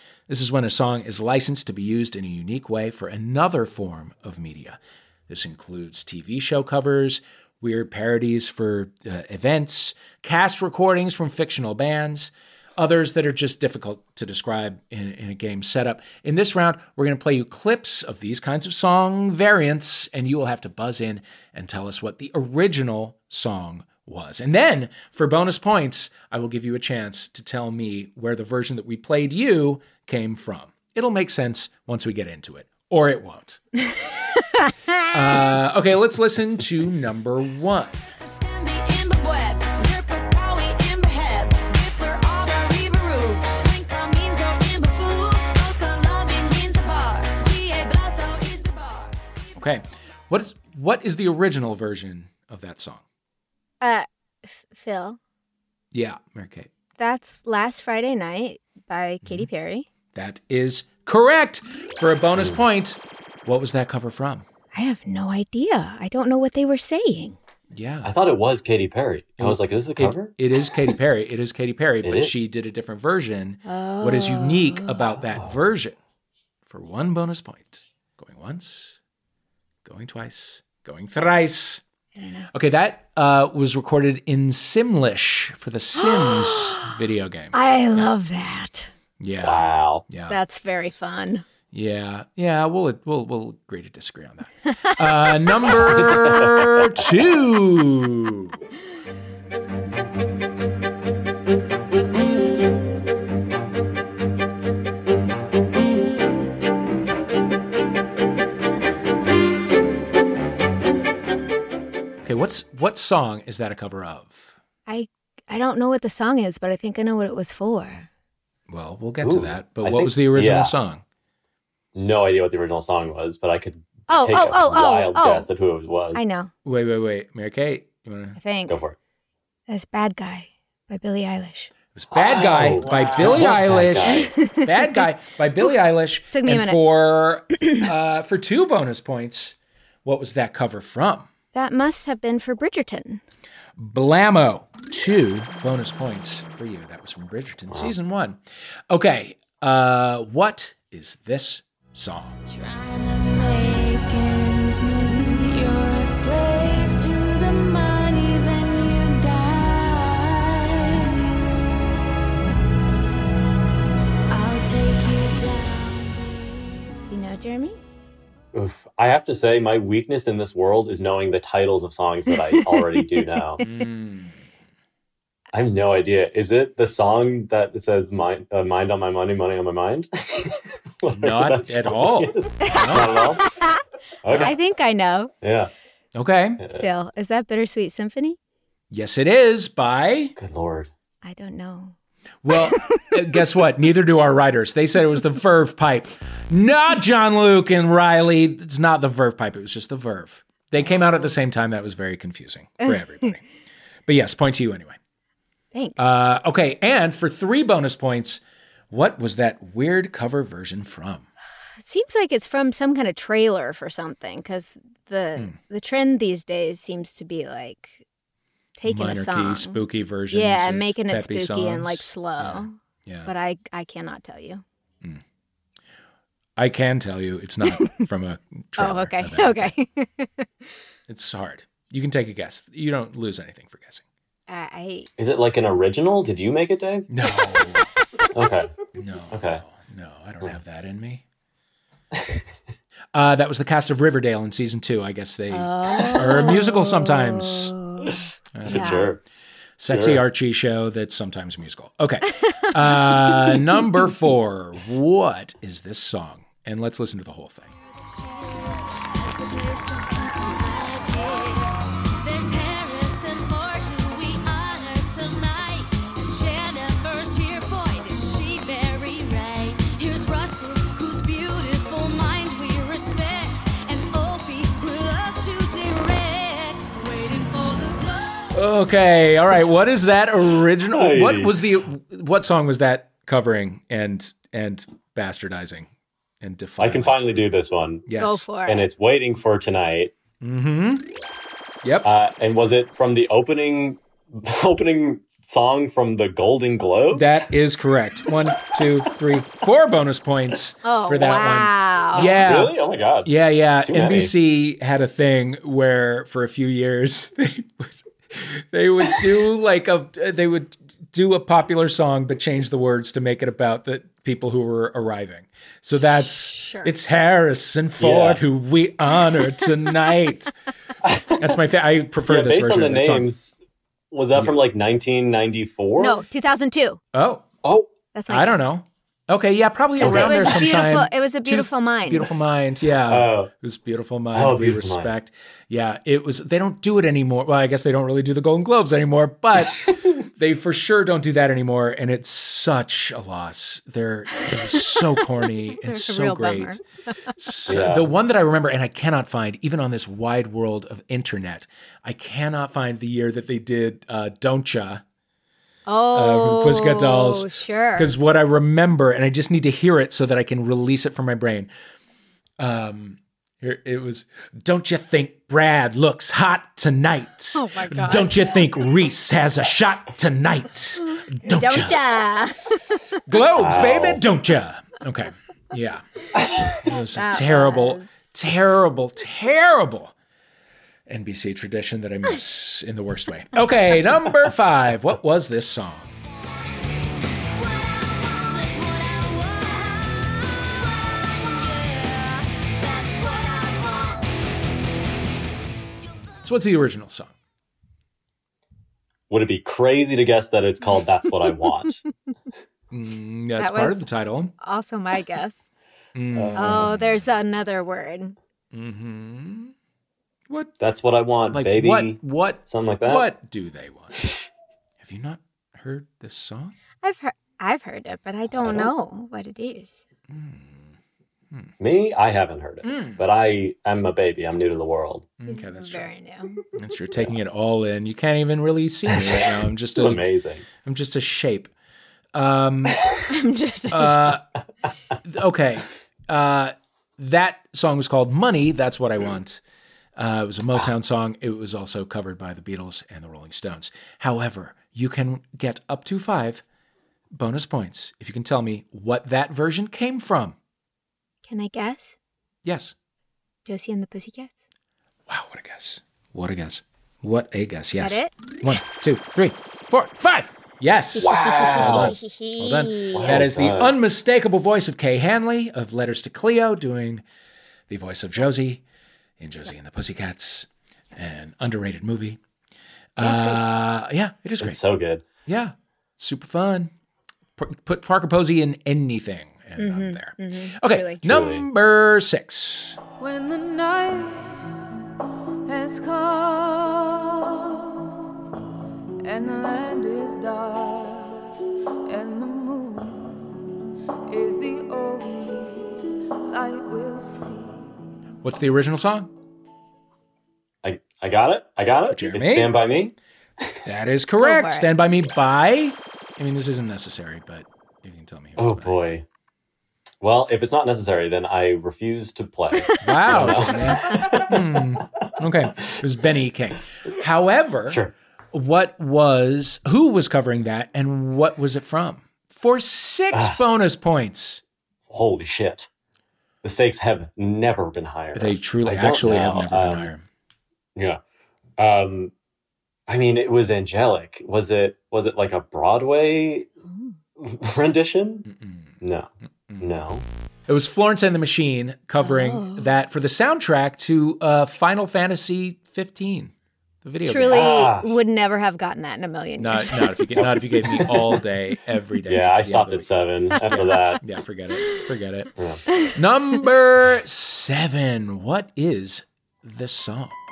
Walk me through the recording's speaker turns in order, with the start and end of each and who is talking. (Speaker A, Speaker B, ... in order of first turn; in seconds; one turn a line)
Speaker A: 0.3-33.6
Speaker A: 35.1-38.1
Speaker B: 38.2-49.1
Speaker A: 49.5-53.0
Speaker C: 53.8-55.2
Speaker A: 55.9-56.7
Speaker C: 57.0-59.9
Speaker A: 59.2-59.5
Speaker A: 60.1-64.4
Speaker C: 64.7-67.4
Speaker A: 67.7-68.1
Speaker D: 68.0-70.3
Speaker A: 69.4-76.0
Speaker D: 72.0-72.3
Speaker C: 73.7-75.0
Speaker D: 75.0-75.6
Speaker A: 76.7-79.0
Speaker A: 79.8-81.8
Speaker C: 82.2-82.5
Speaker A: 82.5-88.0
Speaker C: 86.0-86.9
Speaker C: 87.5-88.9
Speaker A: 89.2-90.4
Speaker D: 89.4-90.0
Speaker C: 90.3-91.4
Speaker A: 91.7-98.6
Speaker D: 95.8-97.0
Speaker A: 112.2-114.5
Speaker C: 114.9-118.1
Speaker A: 118.7-121.0
Speaker D: 119.2-120.7
Speaker D: 121.9-126.2
Speaker C: 124.1-125.5
Speaker C: 126.1-126.5
Speaker A: 126.6-128.4
Speaker C: 128.4-128.8
Speaker D: 128.7-129.0
Speaker C: 129.7-131.7
Speaker A: 131.9-141.3
Speaker D: 132.1-134.3
Speaker C: 134.1-135.0
Speaker C: 136.3-136.8
Speaker C: 141.5-143.2
Speaker A: 143.8-148.4
Speaker A: 148.9-152.4
Speaker C: 167.1-167.8
Speaker D: 168.5-173.6
Speaker C: 172.5-172.9
Speaker A: 173.6-174.4
Speaker D: 175.5-183.4
Speaker A: 181.1-183.1
Speaker C: 182.7-185.3
Speaker D: 184.2-184.6
Speaker D: 185.4-185.7
Speaker A: 186.1-186.6
Speaker D: 186.6-186.9
Speaker C: 186.7-188.4
Speaker A: 188.9-190.3
Speaker D: 190.3-190.9
Speaker C: 191.2-191.9
Speaker A: 192.4-203.4
Speaker C: 192.5-193.1
Speaker C: 200.8-201.3
Speaker A: 204.1-205.0
Speaker C: 205.7-206.0
Speaker A: 206.0-211.3
Speaker C: 211.8-218.0
Speaker C: 218.8-222.7
Speaker A: 218.8-223.3
Speaker C: 223.2-224.6
Speaker A: 226.6-229.7
Speaker C: 228.8-230.5
Speaker A: 231.1-234.0
Speaker C: 234.5-235.1
Speaker D: 235.2-237.1
Speaker A: 237.1-237.9
Speaker D: 238.3-238.7
Speaker A: 239.0-241.2
Speaker D: 239.3-239.6
Speaker A: 243.1-247.7
Speaker C: 245.5-249.1
Speaker A: 248.5-249.1
Speaker D: 248.7-249.2
Speaker A: 249.8-257.7
Speaker D: 249.9-250.2
Speaker A: 278.5-285.9
Speaker D: 280.9-281.6
Speaker A: 286.4-287.2
Speaker D: 286.8-288.1
Speaker A: 288.1-288.4
Speaker C: 288.2-288.9
Speaker D: 288.6-290.1
Speaker A: 290.4-291.0
Speaker A: 291.8-292.1
Speaker D: 292.0-297.4
Speaker A: 297.1-320.5
Speaker C: 300.8-302.3
Speaker D: 302.1-304.3
Speaker C: 316.5-316.9
Speaker D: 318.0-318.4
Speaker D: 321.0-321.5
Speaker A: 321.3-323.3
Speaker D: 322.3-326.2
Speaker C: 326.0-327.0
Speaker A: 327.1-327.5
Speaker D: 327.6-327.9
Speaker C: 328.1-328.6
Speaker A: 328.3-346.8
Speaker D: 330.0-330.7
Speaker C: 330.0-332.3
Speaker D: 333.1-333.5
Speaker D: 334.3-335.1
Speaker C: 345.8-346.8
Speaker A: 347.4-355.0
Speaker D: 347.7-348.1
Speaker C: 355.9-358.1
Speaker A: 356.1-361.7
Speaker A: 362.6-372.0
Speaker C: 367.5-368.4
Speaker C: 371.4-373.0
Speaker A: 373.3-376.0
Speaker D: 373.6-374.2
Speaker A: 376.7-380.1
Speaker C: 377.1-378.1
Speaker A: 381.1-386.1
Speaker B: 387.8-390.0
Speaker B: 391.4-392.2
Speaker B: 392.9-394.2
Speaker A: 396.4-397.3
Speaker D: 399.3-402.0
Speaker A: 402.9-404.5
Speaker C: 403.6-404.1
Speaker C: 404.6-405.6
Speaker A: 406.1-407.2
Speaker D: 406.3-407.0
Speaker C: 406.6-408.4
Speaker A: 408.7-409.7
Speaker D: 410.8-413.3
Speaker A: 411.5-414.2
Speaker A: 415.0-416.7
Speaker C: 417.0-420.0
Speaker D: 418.6-418.9
Speaker A: 420.3-420.9
Speaker D: 421.8-425.3
Speaker A: 422.8-423.2
Speaker A: 425.4-426.1
Speaker C: 425.5-426.6
Speaker A: 426.8-430.2
Speaker D: 429.1-430.6
Speaker A: 430.8-431.7
Speaker A: 432.3-433.0
Speaker C: 433.3-434.4
Speaker A: 433.9-434.4
Speaker A: 435.2-439.6
Speaker A: 440.2-446.6
Speaker A: 447.3-450.6
Speaker C: 451.5-452.1
Speaker A: 452.6-452.9
Speaker C: 453.6-454.5
Speaker A: 455.3-467.2
Speaker C: 457.9-458.3
Speaker D: 461.2-462.1
Speaker C: 461.2-463.3
Speaker D: 463.1-463.9
Speaker A: 467.9-468.8
Speaker A: 469.4-472.4
Speaker A: 473.2-474.8
Speaker C: 473.2-473.6
Speaker D: 474.6-475.2
Speaker A: 475.4-476.9
Speaker A: 477.6-483.0
Speaker C: 479.8-481.2
Speaker D: 481.2-481.6
Speaker B: 483.2-484.7
Speaker B: 485.6-488.0
Speaker B: 489.2-491.5
Speaker B: 492.1-493.5
Speaker B: 494.3-497.9
Speaker A: 498.4-499.3
Speaker D: 500.8-503.8
Speaker A: 502.1-502.8
Speaker A: 503.8-509.0
Speaker C: 504.4-504.9
Speaker D: 508.6-509.2
Speaker D: 510.2-514.8
Speaker C: 512.8-513.2
Speaker A: 513.0-524.6
Speaker D: 523.3-523.6
Speaker D: 525.1-525.9
Speaker D: 526.6-530.1
Speaker A: 528.3-530.2
Speaker D: 531.0-531.2
Speaker D: 531.8-532.3
Speaker D: 533.1-536.7
Speaker D: 537.4-538.5
Speaker A: 538.5-539.0
Speaker D: 539.0-539.3
Speaker A: 539.7-540.0
Speaker D: 539.8-540.2
Speaker A: 540.7-546.5
Speaker C: 542.2-542.8
Speaker A: 547.0-547.6
Speaker C: 547.2-550.4
Speaker D: 547.5-548.1
Speaker A: 549.6-553.1
Speaker D: 550.4-551.3
Speaker D: 552.3-554.2
Speaker A: 553.6-555.5
Speaker D: 555.5-555.9
Speaker A: 556.1-560.4